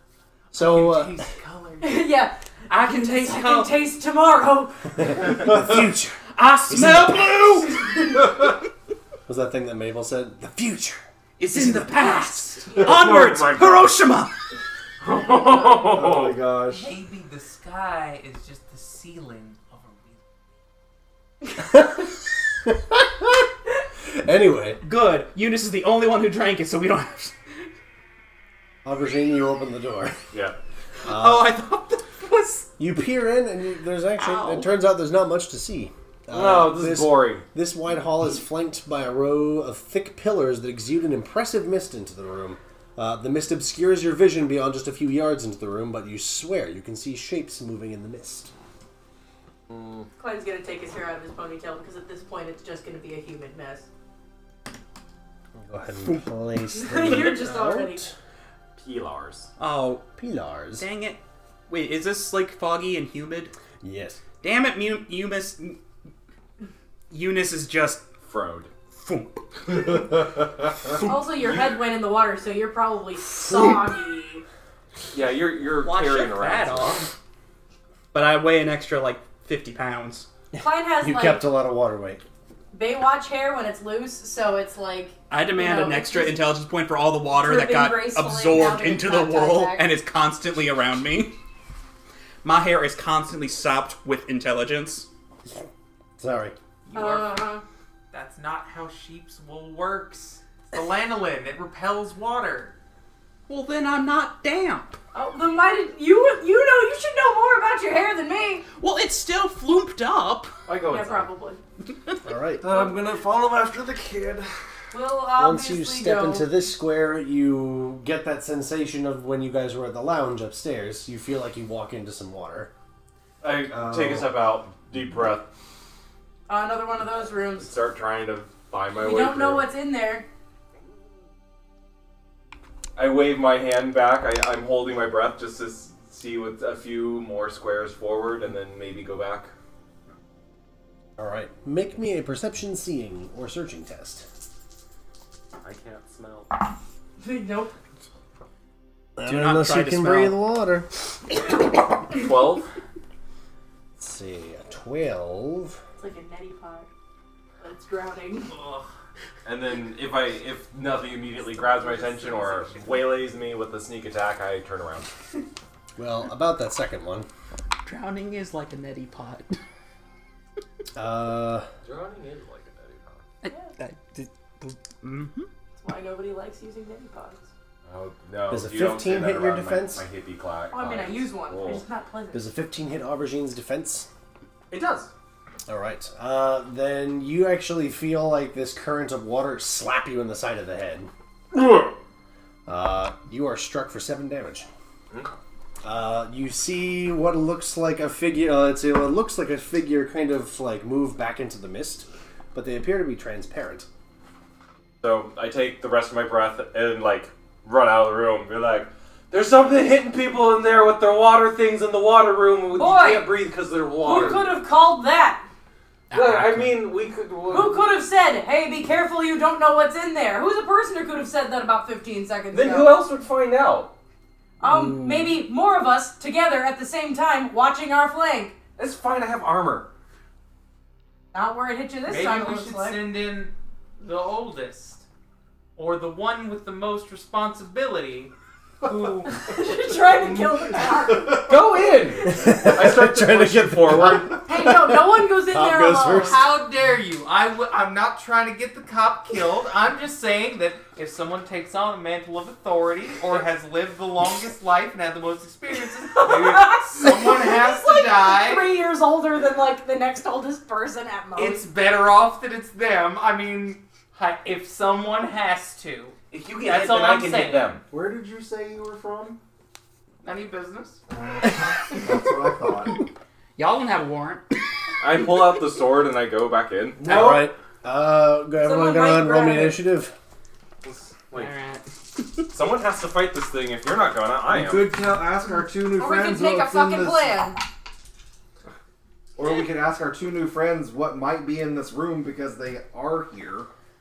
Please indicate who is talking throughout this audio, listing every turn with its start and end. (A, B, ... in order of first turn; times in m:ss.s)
0:00.5-0:02.2 A
0:00.5-0:01.3 B
0:01.8-0:02.4 C
0:02.7-0:03.7 A
0:02.9-0:05.2 C
0:05.0-0:07.6 B
0:06.4-0:08.2 D
0:09.3-0:11.9 B
0:11.4-0:14.3 D
0:12.8-0:13.9 E
0:15.0-0:16.4 E
0:15.6-0:17.0 F
0:16.6-0:20.2 A
0:21.6-0:22.1 B
0:22.6-0:23.4 B
0:24.0-0:24.8 B
0:24.8-0:27.4 D
0:28.8-0:30.2 B
0:30.3-0:30.6 E
0:31.0-0:32.7 D
0:31.0-0:31.5 B
0:32.8-0:48.5 B
0:34.2-0:34.7 D
0:36.3-0:37.4 E
0:49.7-0:50.0 E
0:50.2-0:53.9 C
0:55.6-0:58.1 B
0:56.7-0:58.0 C
0:58.8-0:59.5 E
0:59.6-1:00.0 D
1:00.2-1:00.9 B
1:00.8-1:03.5 D
1:03.8-1:04.2 B
1:04.4-1:05.8 D
1:07.1-1:08.0 D
1:08.2-1:08.7 E
1:08.9-1:10.1 D
1:11.0-1:14.4 C
1:15.1-1:17.1 E
1:15.8-1:17.1 D
1:18.1-1:20.3 D
1:20.5-1:22.2 B
1:20.6-1:21.4 C
1:22.7-1:26.4 C
1:25.3-1:31.3 D
1:27.3-1:29.8 C
1:32.4-1:35.1 D
1:36.2-1:36.5 B
1:36.8-1:37.5 A
1:36.9-1:37.6 C
1:38.1-1:42.7 A
1:43.5-1:45.0 D
1:45.1-1:48.6 C
1:48.8-1:50.5 D
1:50.6-1:51.3 E
1:50.8-1:51.6 C
1:52.2-1:52.6 B
1:52.6-1:54.4 F
1:52.6-1:53.7 E
1:54.9-1:56.5 C
1:55.4-2:02.7 B
2:03.4-2:05.5 E
2:03.7-2:04.3 F
2:06.5-2:07.7 C
2:07.6-2:09.7 E
2:09.0-2:10.2 C
2:13.0-2:19.5 E
2:21.2-2:24.2 B
2:25.6-2:26.5 E
2:27.2-2:27.7 C
2:29.2-2:30.9 B
2:29.2-2:30.4 D
2:32.1-2:32.7 E
2:34.0-2:35.8 B
2:36.0-2:36.9 C
2:37.6-2:38.6 C
2:38.5-2:38.9 A
2:39.4-2:45.1 E
2:41.4-2:43.0 A
2:46.0-2:47.3 B
2:47.8-2:49.6 D
2:50.9-2:51.7 B
2:51.8-2:53.2 E
2:53.4-2:55.5 D
2:55.8-2:57.5 C
2:57.8-3:01.8 E
2:58.5-3:00.0 B
3:00.7-3:02.5 C
3:02.3-3:04.1 B
3:04.7-3:05.1 E
3:05.7-3:11.1 B
3:12.7-3:14.7 B
3:15.8-3:23.9 B
3:25.0-3:34.5 E
3:32.7-3:33.3 C
3:34.0-3:35.4 C
3:36.1-3:36.8 D
3:36.1-3:37.8 E
3:37.5-3:43.0 C
3:42.5-3:43.9 E
3:44.6-3:48.6 C
3:44.6-3:45.2 D
3:48.8-3:49.9 E
3:51.3-3:53.0 C
3:52.1-3:55.0 A
3:55.8-4:00.9 A
3:59.2-4:02.5 C
4:01.3-4:04.4 E
4:02.3-4:06.4 B
4:04.4-4:06.4 C
4:06.1-4:18.7 A
4:16.1-4:21.6 C
4:21.3-4:27.7 A
4:26.3-4:27.8 E
4:27.9-4:29.4 F
4:30.2-4:31.0 A
4:31.4-4:33.0 F
4:33.6-4:34.4 D
4:35.0-4:37.1 E
4:37.0-4:37.5 F
4:37.0-4:40.1 B
4:38.6-4:39.8 C
4:40.8-4:41.5 E
4:41.3-4:42.4 D
4:42.5-4:44.9 E
4:44.5-4:47.4 F
4:46.0-4:47.6 C
4:49.4-4:53.7 F